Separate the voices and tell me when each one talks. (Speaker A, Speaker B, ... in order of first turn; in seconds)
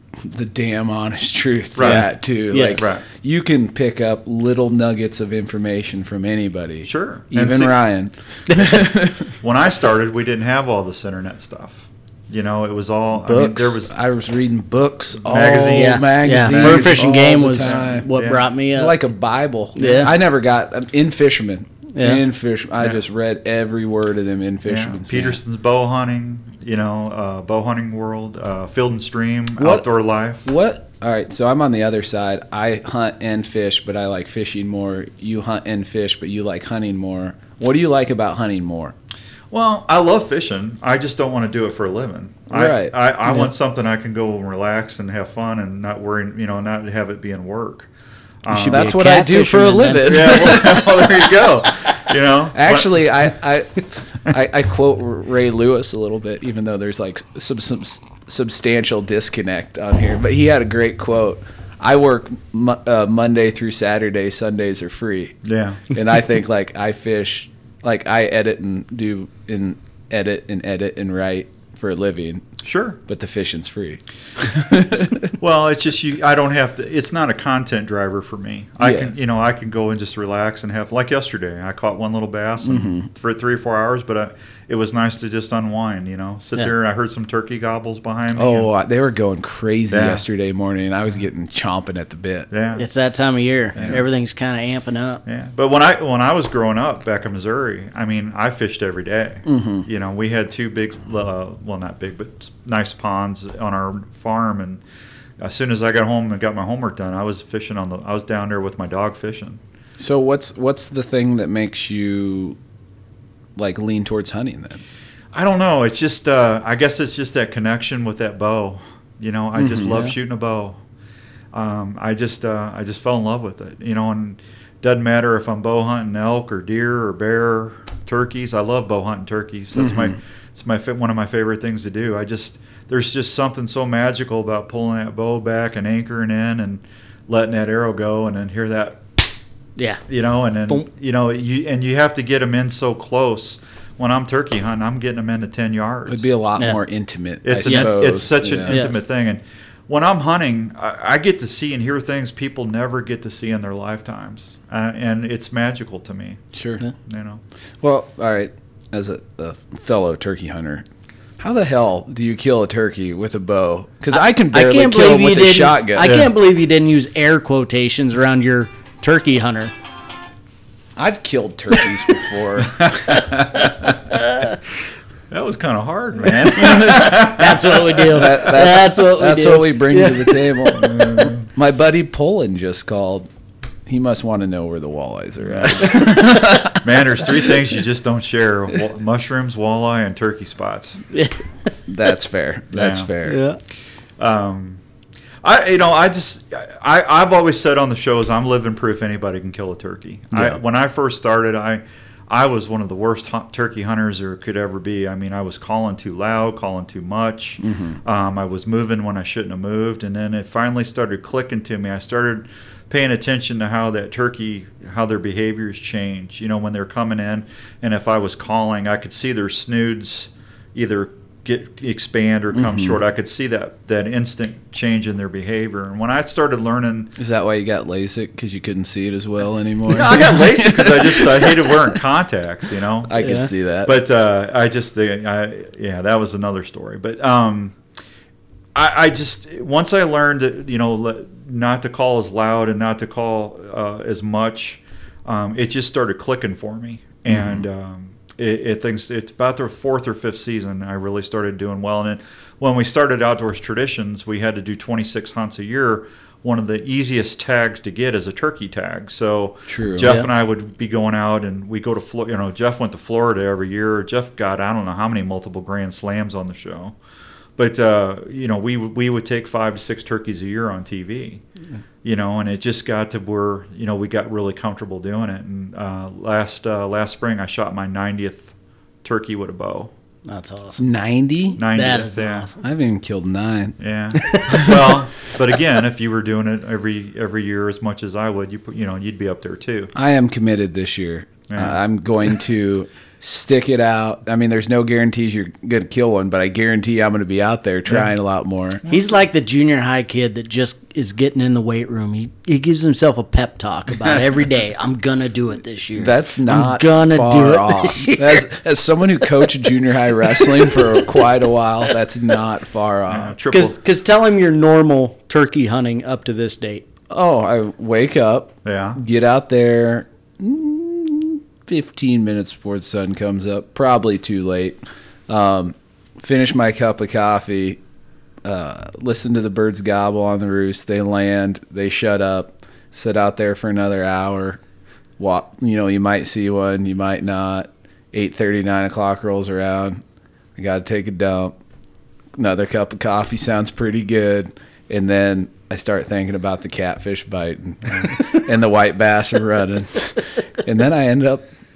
Speaker A: 0.2-9.3, 13.2-18.1, 18.7-25.4, 29.6-29.9, 30.4-38.9, 42.5-42.9, 48.5-51.2, 52.5-65.4, 65.9-72.4, 73.1-75.3, 78.8-79.1, 82.6-83.1, 88.3-92.5, 93.8-94.0, 99.4-99.9, 110.0-112.6, 113.5-114.8, 119.6-120.1, 129.8-130.2, 146.1-148.8, 156.5-156.8, 157.8-160.8, 161.4-166.1, 170.9-173.2, 178.1-183.3, 183.9-186.9, 191.9-193.4, 200.3-200.6, 207.6-208.0, 222.5-223.0, 227.2-231.9, 233.1-233.9, 247.3-247.7, 259.7-260.1, 280.8-281.6, 282.6-283.8, 284.4-284.9, 289.9-298.8, 305.9-313.3, 317.1-327.8, 328.4-334.6, 335.2-340.0, 340.6-341.5, 342.3-351.5
Speaker B: 1.7-3.0, 6.8-7.8, 8.6-13.9, 15.2-18.4, 24.6-30.4, 39.5-47.9, 48.4-49.0, 50.0-53.0, 65.4-65.9, 72.6-73.0, 75.4-88.7, 89.9-90.2, 92.5-92.8, 93.7-94.0, 95.2-104.8, 105.4-109.6, 115.3-120.8, 121.5-139.2, 140.1-146.3, 147.4-156.4, 157.0-157.4, 166.0-166.3, 172.7-173.9, 175.3-178.4, 180.7-181.5, 185.4-186.2, 186.7-191.0, 192.7-193.1, 194.2-194.8, 195.4-227.1, 229.8-237.8, 238.7-266.9, 267.6-271.4, 272.0-278.5, 279.0-279.9, 281.6-282.5, 283.8-289.9, 291.5-291.8, 297.9-298.1, 298.8-299.1, 313.1-313.8, 318.6-319.0
Speaker C: 1.8-2.8, 15.7-19.0, 19.7-20.1, 21.9-22.2, 48.5-50.7, 92.8-95.2, 139.8-140.0, 147.6-149.0, 164.5-169.7, 174.1-174.4, 176.9-180.8, 191.1-191.4, 193.2-193.6, 233.2-233.5, 280.3-280.8, 281.7-282.6, 284.2-284.6, 298.9-308.4, 313.5-316.8